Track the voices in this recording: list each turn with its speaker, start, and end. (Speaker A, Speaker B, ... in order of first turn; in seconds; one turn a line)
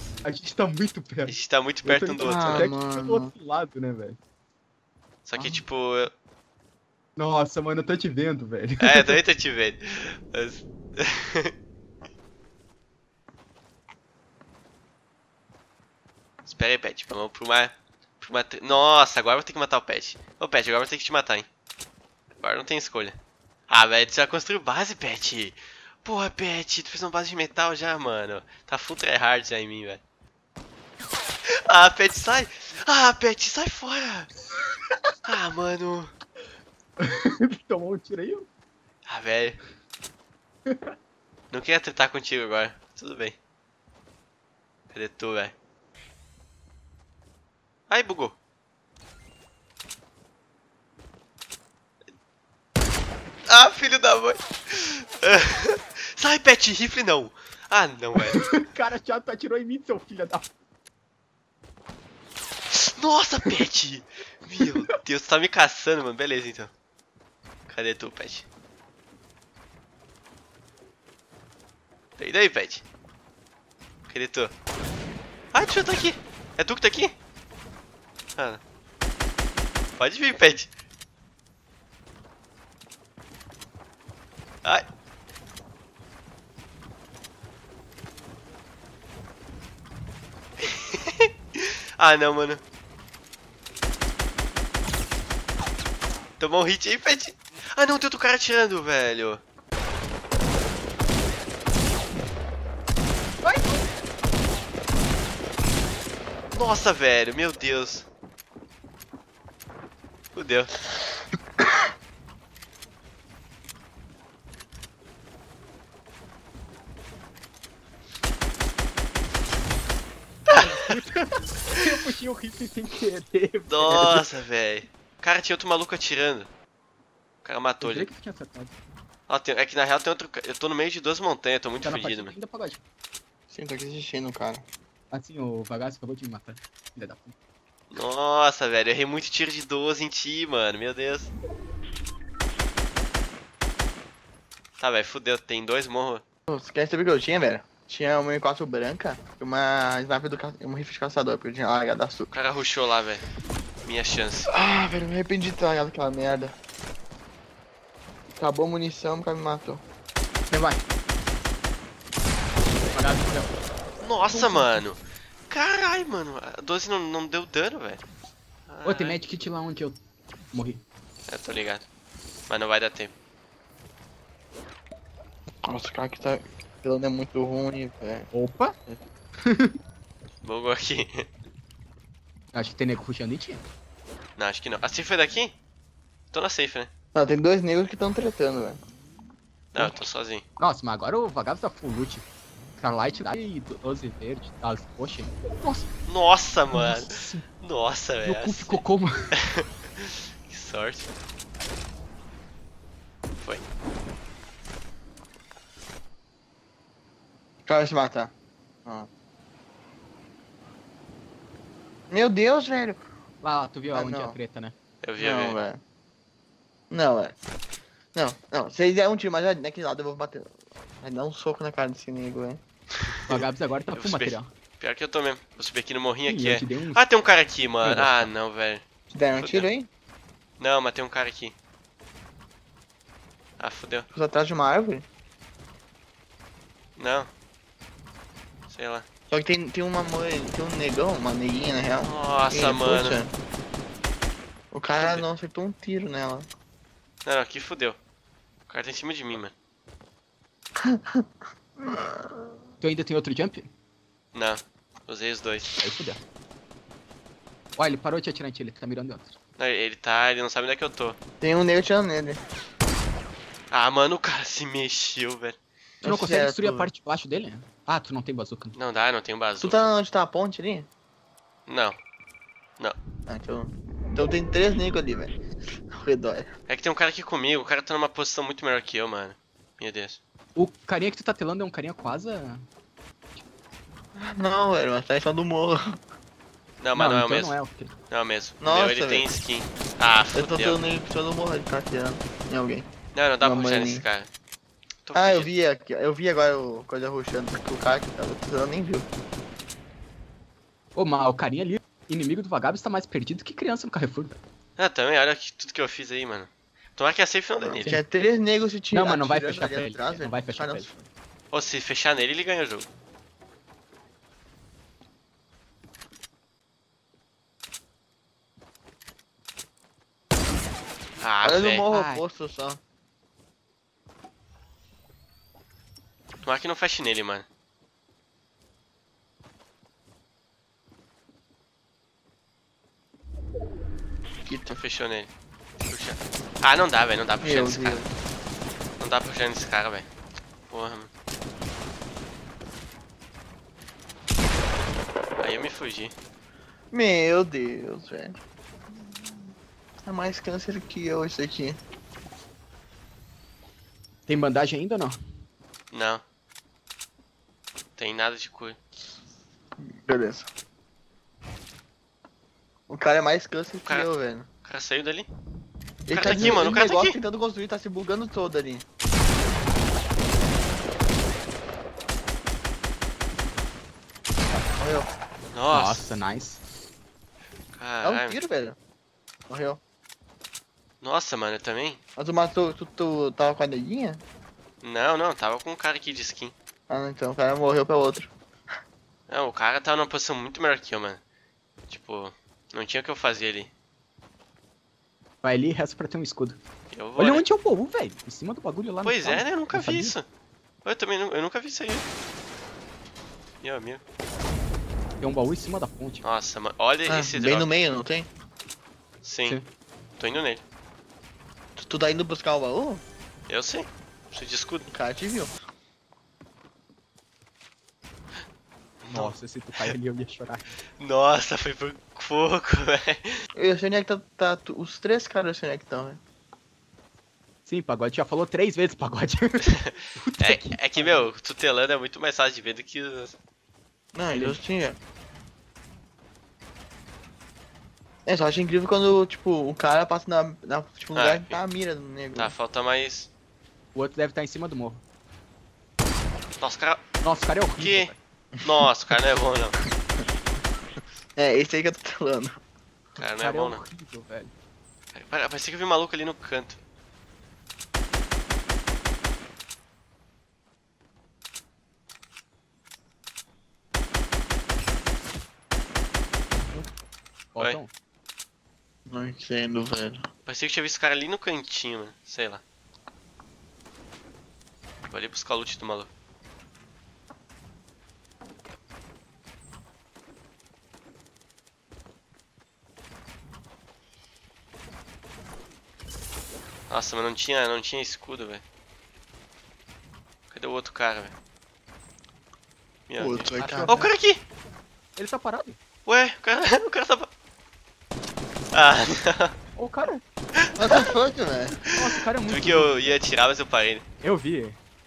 Speaker A: 0.2-4.2
Speaker B: 1.3-2.7
Speaker C: 2.2-3.3
Speaker B: 5.2-6.1
Speaker A: 5.4-5.6
Speaker A: 7.2-9.2
Speaker B: 8.8-11.5
Speaker B: 16.4-21.5
Speaker B: 22.4-23.2
Speaker B: 23.7-30.0
Speaker B: 31.7-34.3
Speaker B: 35.2-36.1
Speaker A: 37.0-38.5
Speaker B: 39.1-39.6
Speaker B: 41.5-43.4
Speaker B: 44.9-45.5
Speaker B: 47.9-48.4
Speaker B: 53.5-58.5
Speaker A: 58.3-60.5
Speaker B: 62.7-66.7
Speaker B: 67.7-68.5
Speaker B: 72.2-72.8
Speaker B: 74.1-74.5
Speaker B: 75.5-77.1
Speaker B: 80.0-80.7
Speaker B: 90.6-92.6
Speaker B: 96.4-99.4
Speaker A: 103.4-103.8
Speaker B: 106.5-108.1
Speaker B: 110.3-110.7
Speaker A: 120.5-124.3
Speaker B: 123.7-126.5
Speaker B: 127.4-128.1
Speaker A: 127.8-128.7
Speaker B: 129.3-132.3
Speaker A: 131.8-132.8
Speaker C: 133.5-134.6
Speaker A: 135.1-137.3
Speaker B: 137.9-141.3
Speaker B: 144.8-146.2
Speaker C: 146.5-152.3
Speaker B: 152.3-153.2
Speaker B: 153.8-154.5
Speaker C: 154.5-156.6
Speaker C: 158.4-159.8
Speaker A: 160.5-160.8
Speaker A: 162.9-163.6
Speaker B: 164.0-168.0
Speaker A: 164.2-164.8
Speaker B: 168.7-169.2
Speaker A: 168.8-170.0
Speaker A: 170.5-170.8
Speaker B: 171.3-171.8
Speaker B: 172.5-173.1
Speaker C: 175.7-178.3
Speaker A: 178.3-178.8
Speaker A: 179.5-179.7
Speaker B: 180.4-181.2
Speaker A: 182.5-183.6
Speaker B: 184.4-185.6
Speaker B: 186.3-186.9
Speaker C: 187.1-188.8
Speaker B: 189.7-190.4
Speaker A: 190.6-192.2
Speaker A: 192.8-195.9
Speaker B: 196.1-198.8
Speaker A: 196.7-197.5
Speaker A: 198.2-199.3
Speaker B: 199.5-201.1
Speaker C: 207.7-208.3
Speaker C: 212.1-213.0
Speaker A: 213.4-214.8
Speaker C: 213.9-214.4
Speaker B: 215.0-215.6
Speaker C: 215.2-215.8
Speaker C: 216.9-217.3
Speaker C: 218.2-222.6
Speaker A: 223.3-224.5
Speaker B: 223.9-228.8
Speaker A: 226.3-227.0
Speaker A: 227.8-228.3
Speaker C: 229.1-229.9
Speaker B: 229.4-229.7
Speaker B: 230.6-231.6
Speaker B: 233.6-234.1
Speaker C: 234.1-235.1
Speaker B: 237.0-237.3
Speaker B: 238.7-239.1
Speaker C: 239.3-243.3
Speaker B: 242.0-243.2
Speaker C: 244.7-246.5
Speaker B: 245.0-245.3
Speaker B: 247.2-248.0
Speaker B: 248.7-249.5
Speaker C: 250.8-251.2
Speaker C: 251.8-252.3
Speaker A: 252.8-253.7
Speaker B: 254.3-255.7
Speaker A: 255.8-256.2
Speaker A: 257.8-259.4
Speaker B: 259.6-261.2
Speaker C: 261.4-262.4
Speaker B: 263.7-265.6
Speaker C: 266.0-266.9
Speaker A: 266.0-268.8
Speaker B: 268.8-269.9
Speaker C: 269.6-270.9
Speaker B: 271.7-272.0
Speaker C: 273.3-275.4
Speaker C: 275.9-276.5
Speaker B: 276.7-280.2
Speaker A: 280.6-282.6
Speaker C: 284.2-286.0
Speaker B: 286.8-287.6
Speaker A: 286.9-288.0
Speaker B: 288.1-290.8
Speaker C: 288.6-289.3
Speaker C: 290.3-292.9
Speaker B: 293.1-294.3
Speaker C: 293.4-294.1
Speaker B: 295.1-295.5
Speaker C: 295.1-299.1
Speaker A: 300.9-304.4
Speaker B: 304.8-307.9
Speaker C: 307.6-311.1
Speaker A: 308.9-310.9
Speaker B: 311.5-312.9
Speaker B: 321.2-321.9
Speaker C: 321.4-322.8
Speaker A: 321.9-322.2
Speaker B: 326.4-327.5
Speaker C: 334.4-334.8
Speaker B: 334.7-335.3
Speaker B: 335.9-338.0
Speaker C: 337.4-338.1
Speaker B: 339.0-340.1
Speaker B: 340.7-341.1
Speaker B: 345.4-346.1
Speaker C: 346.9-348.4
Speaker C: 350.1-351.8
Speaker A: 354.3-355.2
Speaker B: 355.9-356.2
Speaker B: 358.0-358.8
Speaker C: 359.8-360.5
Speaker C: 362.9-364.5
Speaker B: 364.6-365.3
Speaker C: 366.1-368.9
Speaker B: 366.1-367.2
Speaker A: 366.2-366.6
Speaker C: 374.5-375.1
Speaker B: 375.5-376.1
Speaker A: 375.7-376.6
Speaker B: 377.8-378.4
Speaker C: 378.0-378.8
Speaker C: 379.5-379.8
Speaker B: 381.0-382.0
Speaker C: 382.2-384.2
Speaker B: 384.8-386.5
Speaker C: 386.9-388.3
Speaker B: 389.3-391.2
Speaker B: 391.9-393.7
Speaker A: 395.4-396.6
Speaker B: 396.9-397.5
Speaker A: 397.2-400.2
Speaker B: 399.0-400.3
Speaker B: 400.9-402.1
Speaker B: 403.6-404.0
Speaker A: 405.2-406.2
Speaker B: 406.2-407.7
Speaker C: 407.1-408.3
Speaker B: 409.2-409.6
Speaker B: 410.2-410.6
Speaker C: 411.8-413.0
Speaker B: 413.5-414.9
Speaker C: 414.9-415.5
Speaker B: 419.0-419.3
Speaker A: 419.1-420.7
Speaker B: 421.0-423.4
Speaker C: 423.6-426.2
Speaker A: 427.6-431.3
Speaker B: 429.7-433.4
Speaker C: 434.1-435.0
Speaker A: 434.3-434.6
Speaker C: 438.3-442.5
Speaker B: 441.1-441.6
Speaker B: 442.4-443.3
Speaker A: 443.9-445.0
Speaker B: 446.6-447.0
Speaker A: 447.2-448.2
Speaker B: 447.7-448.1
Speaker B: 448.6-449.8
Speaker C: 451.4-452.6
Speaker B: 453.2-453.8
Speaker A: 453.4-454.5
Speaker B: 455.1-456.8
Speaker A: 466.6-466.9
Speaker A: 467.5-467.9
Speaker C: 469.1-470.3
Speaker B: 470.5-472.6
Speaker B: 475.1-476.1
Speaker B: 486.9-488.6
Speaker B: 490.5-491.3
Speaker B: 493.1-494.4
Speaker C: 493.2-493.9
Speaker A: 493.6-494.1
Speaker A: 495.2-495.8
Speaker B: 496.1-497.3
Speaker B: 498.7-499.6
Speaker A: 499.8-500.2
Speaker C: 500.8-501.8
Speaker A: 501.9-503.1
Speaker B: 502.5-504.0
Speaker A: 504.2-504.8